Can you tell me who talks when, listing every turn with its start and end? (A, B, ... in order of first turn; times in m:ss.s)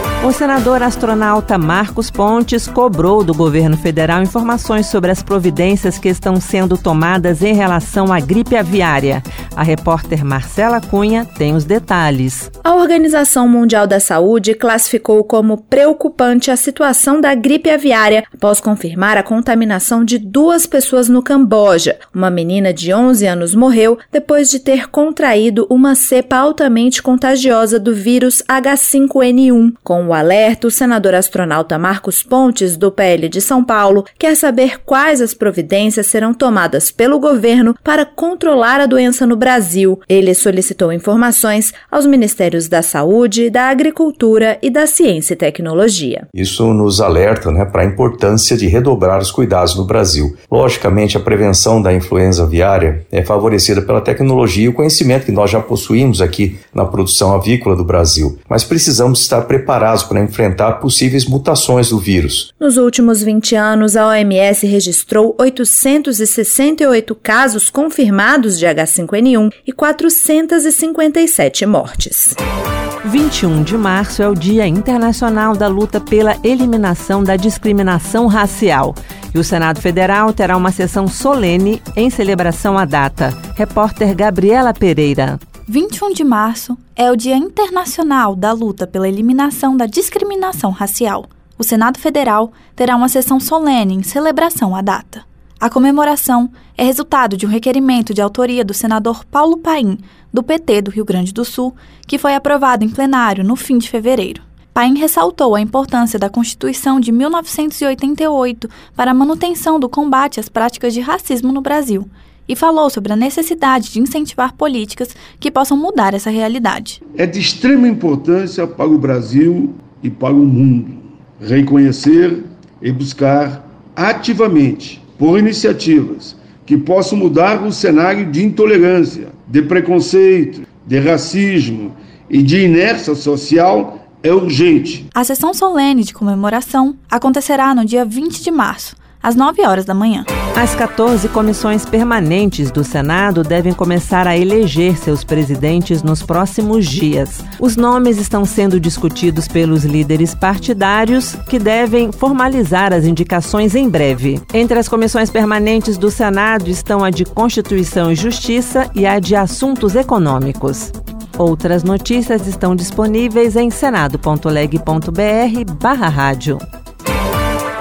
0:00.2-0:12.5 A
0:12.6-0:46.3 B
0:46.3-1:02.5 C
1:02.6-1:12.4 B
1:13.0-1:25.4 A
1:25.7-1:57.0 D
1:57.2-2:15.1 E
2:15.2-2:20.3 D
2:20.5-2:46.6 A